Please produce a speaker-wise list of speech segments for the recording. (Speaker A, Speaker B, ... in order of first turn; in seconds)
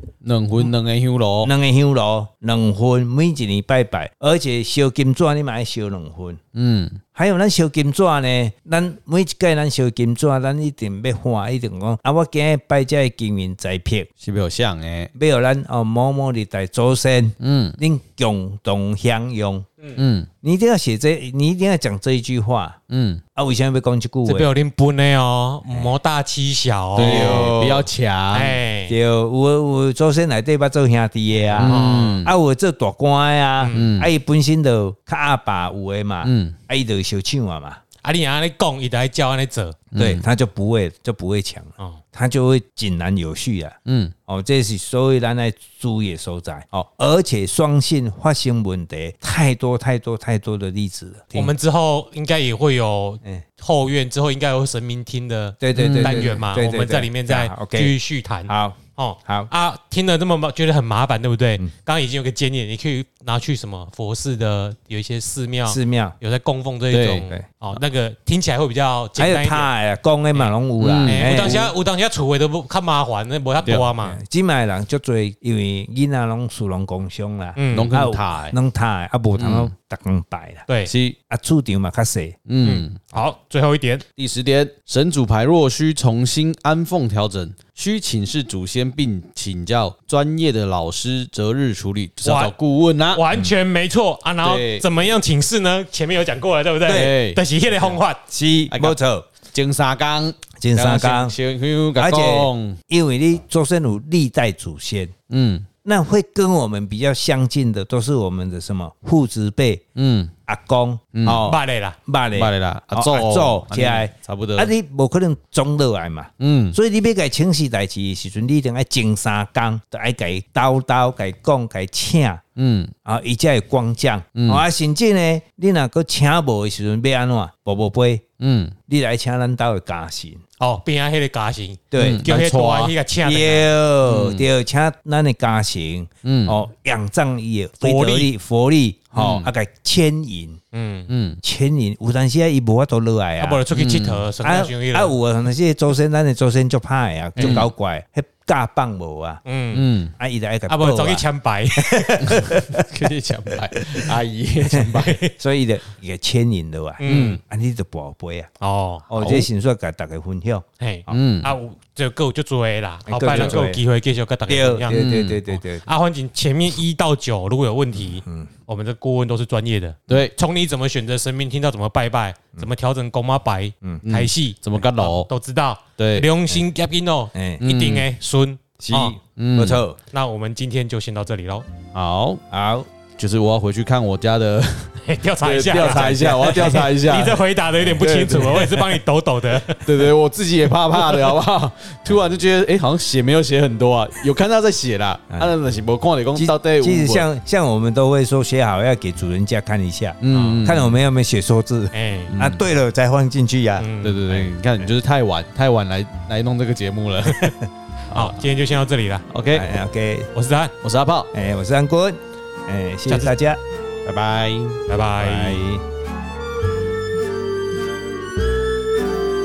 Speaker A: 0.2-1.5, 6.5-7.0, 14.2-15.1, 17.4-17.8, 20.0-20.3, 22.9-23.2, 26.9-28.6, 31.5-32.3, 33.7-34.1, 36.2-36.6, 39.9-40.2, 43.9-44.1, 55.8-56.4, 66.9-67.3, 70.8-71.6, 73.6-73.9, 77.7-78.5, 79.4-79.7, 80.9-81.2, 82.5-83.0, 84.2-93.3, 94.4-94.9, 96.9-98.0, 98.7-102.8, 105.3-105.7, 110.0-110.3, 111.1-111.4, 112.3-114.7, 116.4-116.8, 122.6-122.9, 124.4-124.6, 128.4-128.8, 132.0-132.9, 134.1-134.5, 136.2-136.6, 139.2-139.5, 141.1-141.4, 143.7-144.3, 147.4-147.7, 149.7-150.1, 152.2-155.2, 159.2-159.5, 161.1-161.5, 163.3-163.6, 164.9-165.4, 170.1-170.3, 174.0-175.3, 176.0-176.3, 177.6-178.1, 179.3-179.8, 181.9-182.4, 183.2-189.0, 189.7-197.3, 200.2-201.0, 202.3-202.6, 204.0-207.4, 209.3-209.7, 210.8-211.3, 214.0-214.8
Speaker B: 1.4-6.4, 7.2-14.1, 15.2-19.7, 20.4-22.8, 23.4-24.5, 27.0-27.8, 28.9-37.8, 40.0-51.5, 55.6-57.9, 58.5-59.5, 65.7-66.2, 69.2-71.7, 74.0-80.7, 81.3-82.4, 96.9-97.1, 98.3-99.3, 100.6-101.3, 102.0-105.1, 105.8-109.8, 110.5-122.4, 123.0-128.3, 128.9-130.4, 131.9-132.2, 133.2-140.6, 141.4-143.6, 144.4-149.4, 150.2-152.9, 154.7-158.5, 159.1-161.2, 163.1-163.8, 164.5-165.8, 168.2-168.5, 177.3-177.6, 178.8-180.0, 182.5-182.9, 185.8-186.3, 196.4-203.9, 209.5-210.3, 211.3-213.6, 215.2-215.8
Speaker C: 24.3-27.6, 28.3-29.0, 31.6-32.3, 33.6-33.9, 38.0-39.8, 51.4-69.7, 71.0-74.2, 77.6-77.9, 80.7-80.9, 82.6-84.0, 92.2-92.5, 93.1-98.2, 111.5-112.0, 130.6-133.7, 137.8-138.3, 140.7-141.1, 143.4-145.2, 147.4-147.7, 149.5-149.9, 150.7-152.5, 155.0-155.3, 157.0-157.4, 158.6-159.1, 160.8-165.0, 165.8-179.2, 180.1-181.7, 185.0-190.1, 200.3-200.7, 201.9-202.3, 203.8-204.4, 208.2-209.3, 210.3-210.7, 214.9-215.6